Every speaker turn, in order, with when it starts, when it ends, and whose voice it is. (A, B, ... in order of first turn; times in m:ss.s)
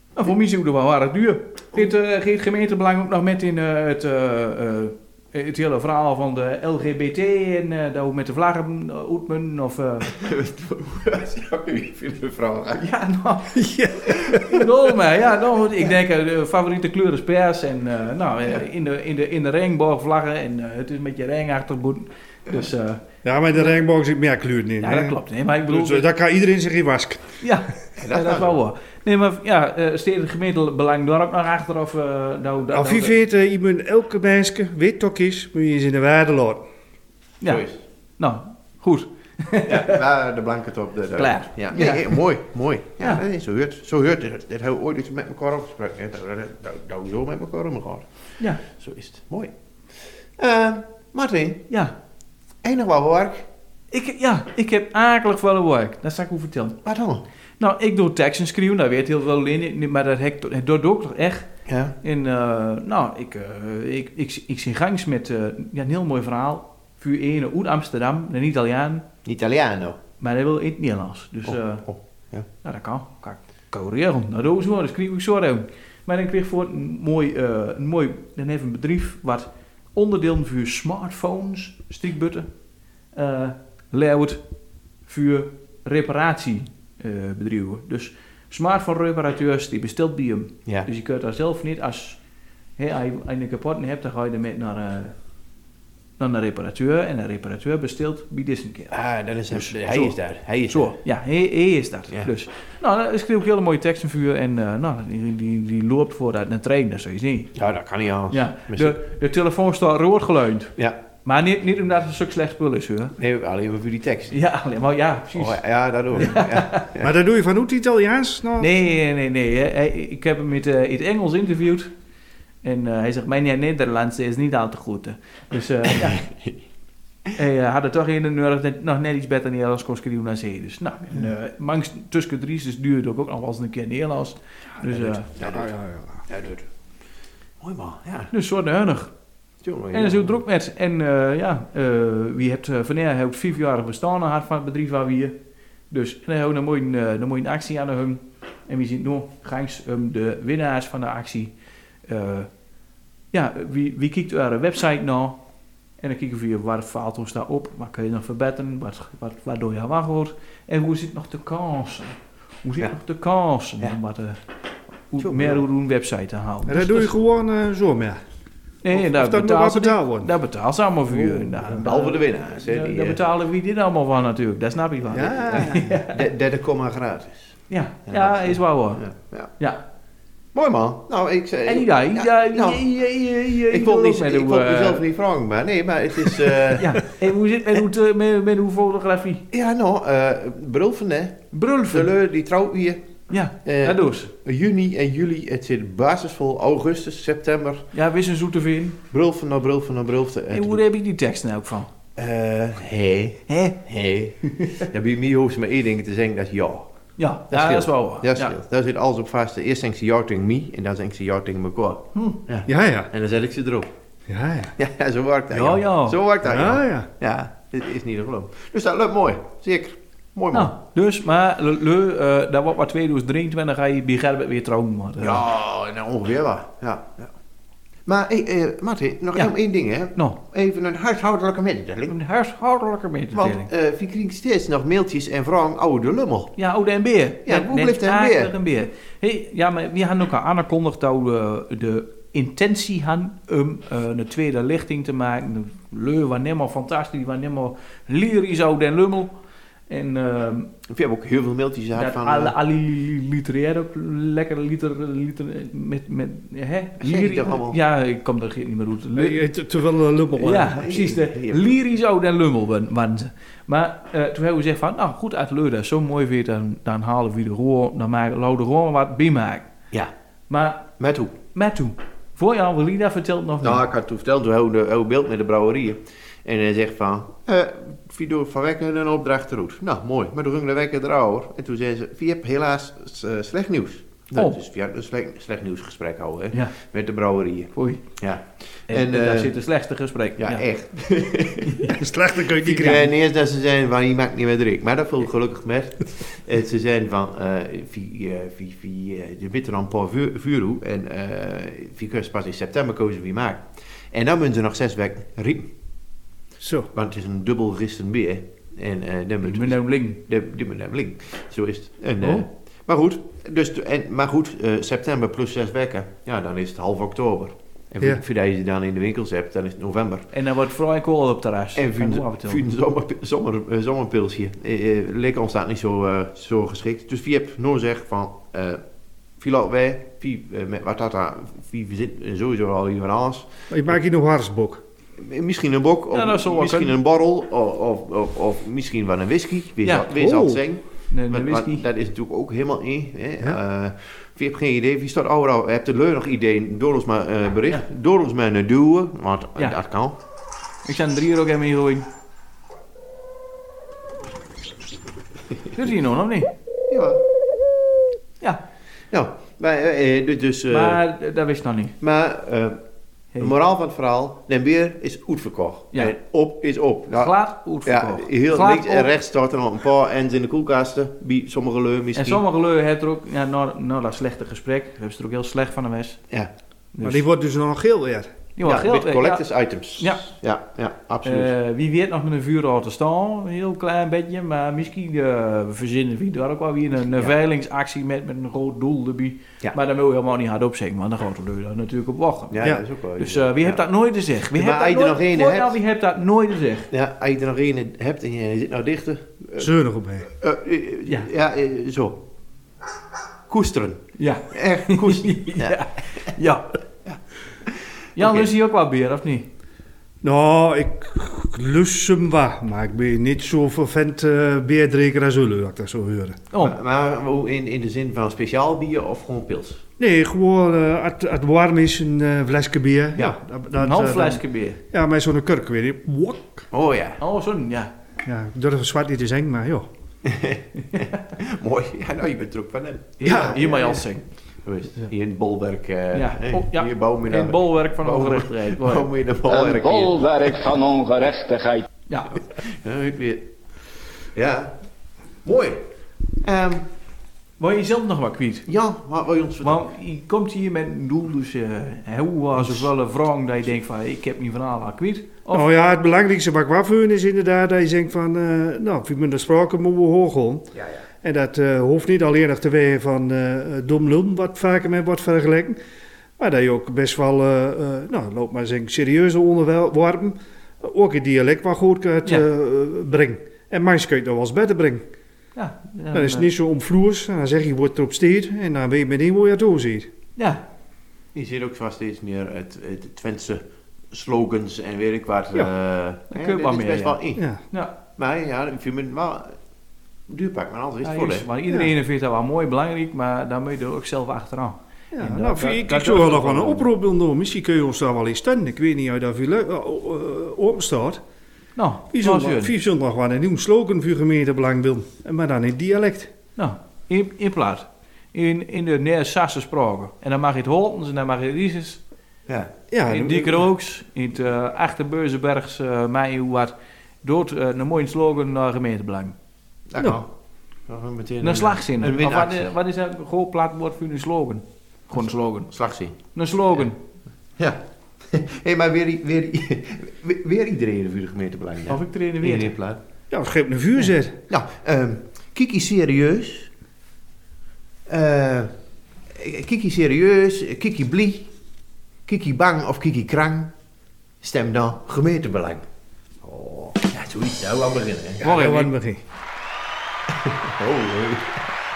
0:00.2-0:10.1 A
0:10.0-0:12.9 B
0:12.8-0:13.6 A
0:13.6-0:14.6 C
0:14.3-0:23.0 A
0:23.2-0:27.3 C
0:24.8-0:26.1 A
0:27.4-0:33.2 A
0:28.0-0:28.6 B
0:32.7-0:36.6 C
0:37.4-0:37.8 B
0:38.2-0:40.0 A
0:39.6-0:48.1 B
0:41.2-0:42.2 A
0:48.6-0:49.5 B
0:50.4-0:51.6 B
0:52.6-0:53.4 B
0:53.9-0:56.8 A
0:56.8-0:57.2 B
0:57.6-1:01.5 A
1:01.7-1:01.9 B
1:02.0-1:09.0 A
1:09.2-1:10.0 B
1:10.2-1:11.8 A
1:11.5-1:12.5 B
1:12.6-1:22.5 A
1:23.1-1:24.4 A
1:25.1-1:32.2 A
1:32.8-1:35.1 A
1:36.2-1:38.9 A
1:38.9-1:40.9 B
1:39.5-1:40.2 A
1:40.7-1:47.5 A
1:47.6-1:49.0 B
1:48.3-1:53.1 A
1:53.2-1:54.4 B
1:54.3-1:55.6 A
1:55.3-1:57.1 B
1:56.2-1:56.9 A
1:57.0-1:58.7 C
1:58.6-2:01.9 A
2:02.6-2:06.3 A
2:06.0-2:06.5 B
2:07.4-2:15.3 A
2:14.8-2:15.7 B
2:15.4-2:16.2 C
2:16.3-2:16.6 B
2:17.6-2:18.3 B
2:18.3-2:19.1 A
2:19.6-2:20.4 B
2:19.9-2:25.4 A
2:25.9-2:31.5 A
2:32.1-2:32.5 A
2:33.3-2:35.4 A
2:36.0-2:44.4 A
2:45.1-2:47.1 A
2:45.3-2:45.6 C
2:46.6-2:48.2 C
2:48.8-2:56.2 A
2:48.9-2:50.3 C
2:51.1-2:51.7 C
2:51.8-2:53.2 B
2:55.1-2:55.9 C
2:55.2-2:59.5 B
2:57.7-2:59.0 A
3:00.5-3:02.9 B
3:01.6-3:05.0 A
3:03.7-3:07.0 B
3:06.7-3:09.4 A
3:09.5-3:13.0 B
3:11.5-3:12.1 A
3:13.3-3:14.3 A
3:13.6-3:17.9 B
3:17.9-3:19.0 A
3:19.1-3:20.8 B
3:20.5-3:21.9 A
3:22.2-3:26.9 B
3:23.5-3:23.8 A
3:24.4-3:24.8 A
3:27.2-3:28.6 A
3:27.5-3:33.9 B
3:32.1-3:32.4 A
3:32.7-3:33.1 C
3:34.3-3:34.7 C
3:34.8-3:40.7 B
3:35.5-3:36.2 A
3:36.4-3:37.1 C
3:40.5-3:45.4 A
3:45.2-3:47.3 B
3:48.0-3:52.2 B
3:52.1-3:53.7 A
3:53.3-3:56.6 B
3:56.6-4:09.3 A
3:57.4-3:58.5 B
4:09.9-4:10.7 A
4:10.9-4:12.5 B
4:11.9-4:19.4 A
4:17.0-4:17.8 B
4:19.2-4:20.8 C
4:20.4-4:29.7 A
4:20.4-4:21.7 B
4:30.5-4:30.9 A
4:31.0-4:31.3 B
4:31.6-4:33.8 A
4:33.6-4:49.5 B
4:47.8-4:48.0 A
4:48.9-4:50.6 A
4:50.4-4:51.9 B
4:51.7-4:52.0 A
4:51.9-4:53.1 C
4:52.6-5:05.7 B
5:06.6-5:06.9 C
5:06.9-5:20.3 B
5:09.4-5:10.2 A
5:20.3-5:22.6 A
5:21.8-5:28.8 B
5:29.4-5:33.9 B
5:33.7-5:34.8 C
5:35.2-5:50.2 B
5:36.1-5:36.9 A
5:39.8-5:40.1 A
5:40.1-5:40.6 C
5:41.1-5:41.9 A
5:50.8-5:52.0 A
5:55.7-5:56.5 A
5:56.9-5:57.2 B
5:59.1-6:01.0 B
6:00.7-6:01.9 A
6:02.0-6:02.8 B
6:03.4-6:07.3 B
6:07.1-6:09.1 A
6:07.8-6:12.4 B
6:12.2-6:16.2 A
6:16.9-6:17.2 A
6:17.0-6:18.3 C
6:18.6-6:19.4 A
6:18.6-6:21.5 B
6:20.0-6:20.3 A
6:21.2-6:32.7 A
6:32.5-6:33.8 B
6:33.2-6:36.9 A
6:34.5-6:35.8 B
6:36.9-6:39.7 B
6:39.6-6:40.3 C
6:40.3-6:42.2 B
6:43.5-6:45.8 B
6:44.2-6:46.7 A
6:47.1-6:48.5 B
6:48.2-6:49.5 A
6:50.2-6:56.4 C
6:56.6-6:59.8 B
7:00.0-7:06.7 C
7:03.8-7:04.8 A
7:06.7-7:07.2 B
7:07.2-7:07.9 A
7:08.2-7:09.9 C
7:10.2-7:14.1 B
7:13.2-7:14.2 A
7:13.3-7:13.6 C
7:14.6-7:20.3 B
7:16.1-7:19.7 A
7:19.6-7:21.9 D
7:22.1-7:22.4 A
7:22.6-7:23.5 B
7:24.3-7:24.7 B
7:25.4-7:25.8 B
7:26.4-7:26.9 B
7:27.6-7:28.7 A
7:28.7-7:29.8 B
7:29.6-7:35.7 A
7:32.6-7:32.9 B
7:35.5-7:40.7 C
7:41.2-7:45.8 C
7:46.4-7:55.0 C
7:55.6-7:56.5 A
7:56.1-8:00.1 C
8:01.3-8:07.4 B
8:06.3-8:07.2 A
8:07.4-8:07.6 C
8:08.2-8:09.6 B
8:10.3-8:11.5 B
8:11.0-8:16.9 A
8:15.1-8:21.2 C
8:21.8-8:22.7 A
8:22.1-8:26.3 C
8:26.6-8:32.0 A
8:32.9-8:33.6 C
8:33.1-8:39.3 A
8:39.9-8:40.3 B
8:40.9-8:42.7 B
8:41.4-8:45.7 A
8:45.2-8:46.2 B
8:46.3-8:47.0 A
8:47.6-8:53.0 B
8:51.9-8:52.7 A
8:53.3-8:54.4 C
8:54.5-8:56.7 B
8:58.1-8:58.7 B
8:59.3-9:01.5 B
9:02.3-9:03.7 B
9:04.4-9:05.8 B
9:06.4-9:08.4 B
9:08.4-9:08.9 A
9:08.4-9:09.2 C
9:10.4-9:11.7 B